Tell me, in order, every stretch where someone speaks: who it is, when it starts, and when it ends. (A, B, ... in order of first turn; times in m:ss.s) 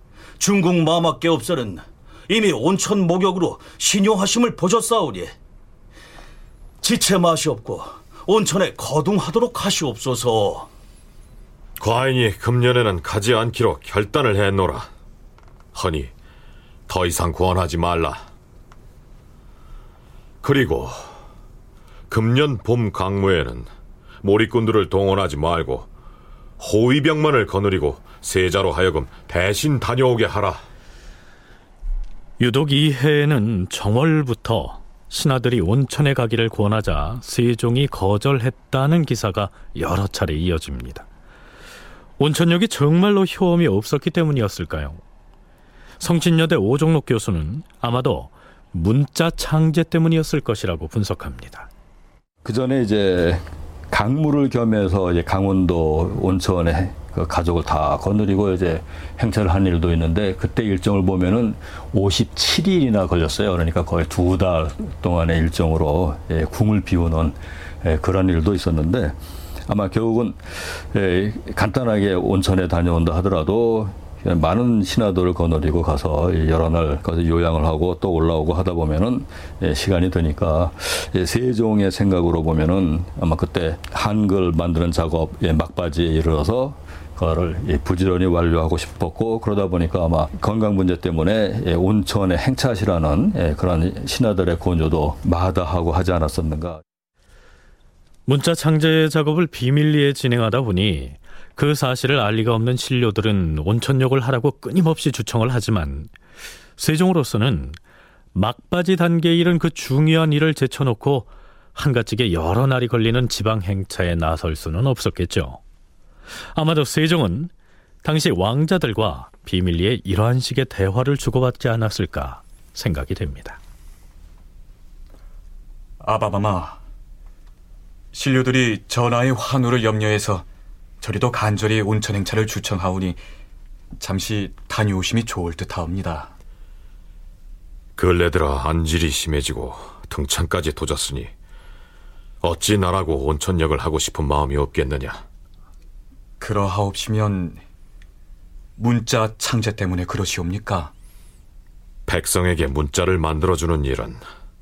0:00.4-0:05.4 A
0:06.8-0:10.7 A
0:11.8-0:14.9 B
0:15.7-0:16.1 B
0:16.9-0:18.2 B
0:20.4-0:21.0 B
0:22.1-0:23.7 B
0:24.2-0:25.9 B
0:26.6-0:30.6 B
0:32.4-0:41.0 C
0:42.2-0:45.0 C
0:46.0-0:51.7 C
0:52.4-1:36.8 D
1:38.2-1:46.1 C
1:46.8-1:47.8 C
1:48.3-1:55.6 C
1:56.5-1:57.5 C
1:58.0-2:03.6 C
2:06.0-2:06.8 E
2:08.1-2:10.4 E
2:11.0-2:13.2 E
2:14.0-2:16.3 E
2:18.0-2:21.3 B
2:22.4-2:25.2 B
2:26.4-2:27.6 E
2:28.8-2:30.9 E
2:32.1-2:34.2 B